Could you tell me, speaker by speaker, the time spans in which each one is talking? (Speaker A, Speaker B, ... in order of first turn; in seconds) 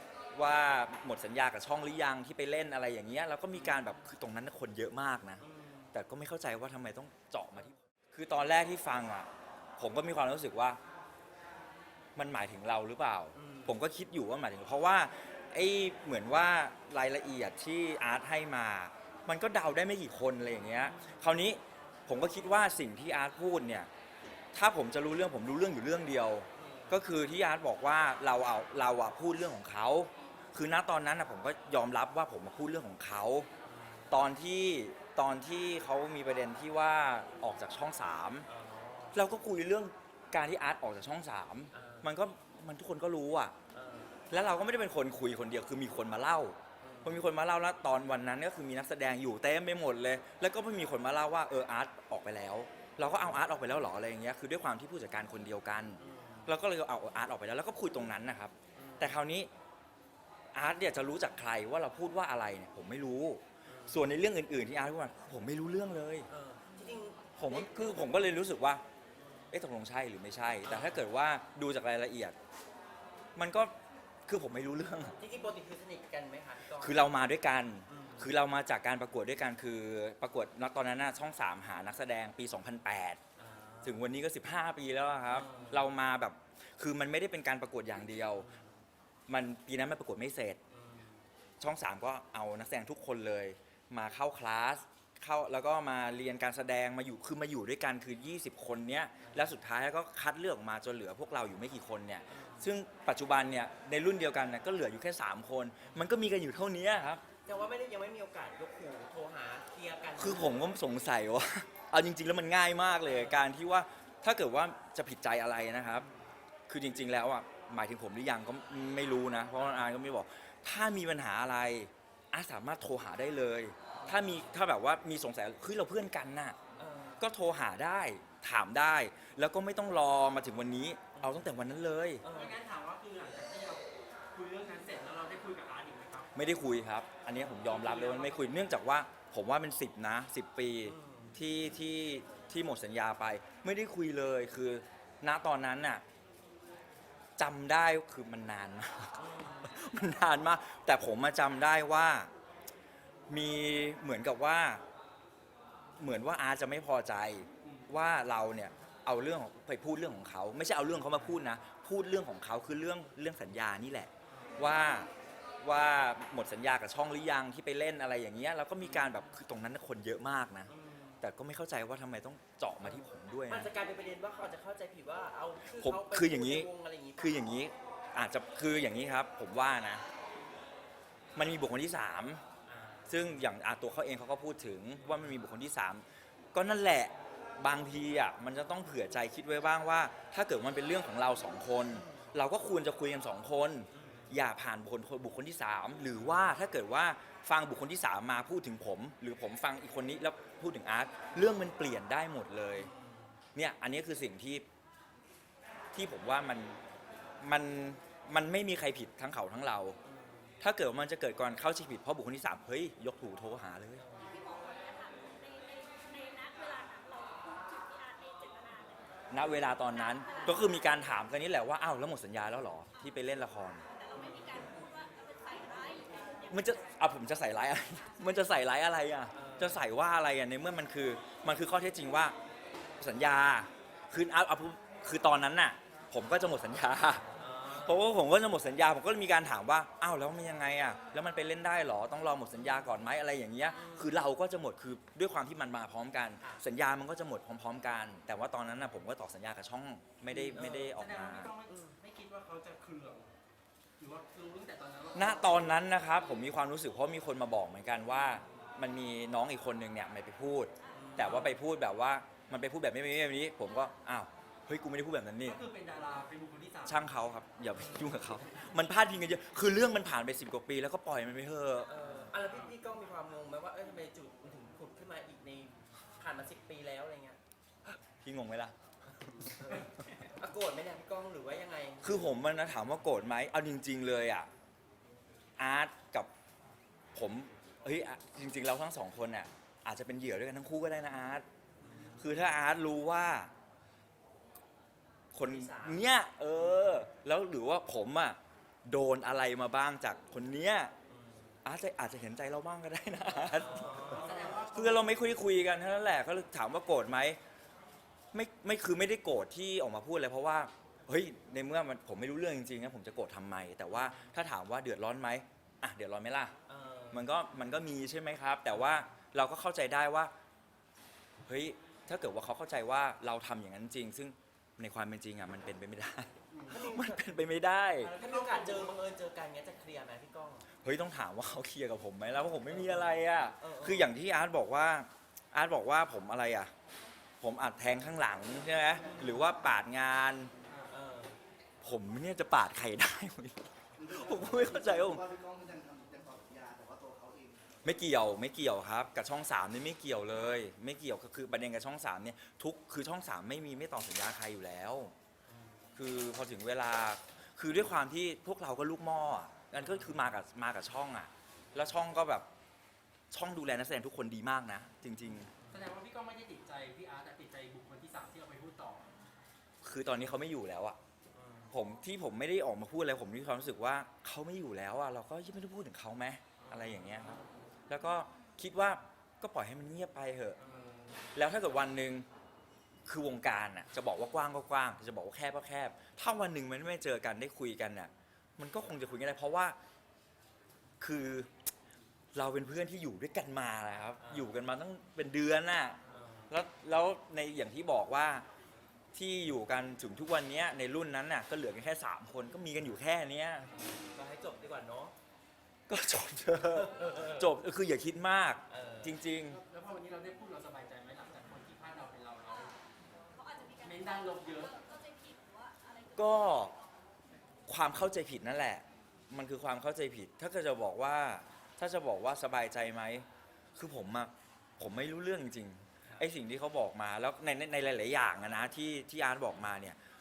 Speaker A: 0.3-10.8, 12.2-23.9, 24.5-33.5, 34.1-38.5, 39.1-43.6, 44.3-59.5, 60.5-66.3, 67.4-68.8, 69.5-72.3, 73.3-73.7, 74.3-75.2, 76.8-83.2, 83.8-88.5, 89.3-90.6, 91.6-107.2, 110.2-116.1, 116.7-126.6, 127.2-132.2, 136.3-146.0, 147.4-152.3, 153.3-154.8, 156.0-165.1, 165.6-173.7, 175.7-180.0, 181.3-182.4, 183.1-202.9, 203.5-204.7, 205.9-206.8, 207.4-210.0, 210.6-214.0, 219.3-223.9, 226.5-232.3, 233.0-251.5, 255.1-265.6, 266.9-272.1, 278.2-278.7, 282.0-284.5, 285.6-286.3, 287.1-291.4, 292.2-293.5, 295.3-300.9, 301.6-307.4, 308.3-316.5, 317.1-320.3, 321.5-328.1, 330.8-336.7, 337.4-340.5, 341.8-345.3, 347.8-355.1, 355.9-362.5, 363.3-365.5, 369.8-371.0, 371.7-377.4, 377.9-380.6, 381.4-382.3, 383.1-389.8, 391.0-391.5, 392.3-398.4, 399.1-403.7, 405.9-409.6, 416.1-416.8, 417.7-430.0
Speaker B: 3.5-3.8, 5.4-5.9, 13.3-13.8, 20.8-21.2, 26.6-27.0, 33.6-34.2, 38.5-39.2, 41.7-42.1, 43.7-44.1, 46.8-47.2, 56.0-56.5, 58.8-59.2, 63.6-64.1, 66.3-68.2, 70.6-71.1, 75.0-77.1, 77.9-78.3, 83.4-84.1, 85.3-85.9, 88.3-88.8, 90.7-91.3, 99.2-99.5, 102.3-102.7, 107.5-110.7, 113.1-113.5, 124.0-124.5, 126.8-127.2, 131.2-131.5, 132.2-132.6, 140.8-141.4, 149.2-149.8, 168.8-169.2, 170.7-171.2, 172.8-177.5, 182.7-183.4, 191.9-192.4, 193.9-194.4, 202.7-203.4, 210.0-210.6, 214.0-214.4, 224.1-224.7, 229.3-229.8, 237.3-238.1, 243.7-244.1, 250.3-251.0, 251.7-252.0, 260.9-261.6, 267.8-268.1, 271.9-277.4, 279.3-282.2, 291.8-292.4, 295.4-297.1, 301.1-301.6, 303.4-304.6, 313.9-314.4, 316.7-317.3, 326.6-327.4, 328.0-330.7, 332.6-334.1, 339.0-339.4, 340.9-341.4, 355.5-355.9, 365.4-365.9, 371.3-371.8, 376.6-377.5, 380.6-381.1, 394.2-394.6, 396.1-396.5, 403.8-405.1, 406.7-407.6, 408.7-409.2
Speaker C: 132.3-136.3, 137.6-138.6, 157.6-157.9, 250.9-253.3, 254.0-255.8, 265.4-267.1, 304.1-305.3, 328.2-328.9, 365.7-369.1, 409.5-412.7, 413.8-414.8
Speaker D: 214.2-219.1, 219.8-220.8, 223.9-226.8, 413.3-416.8
Speaker E: 344.0-347.6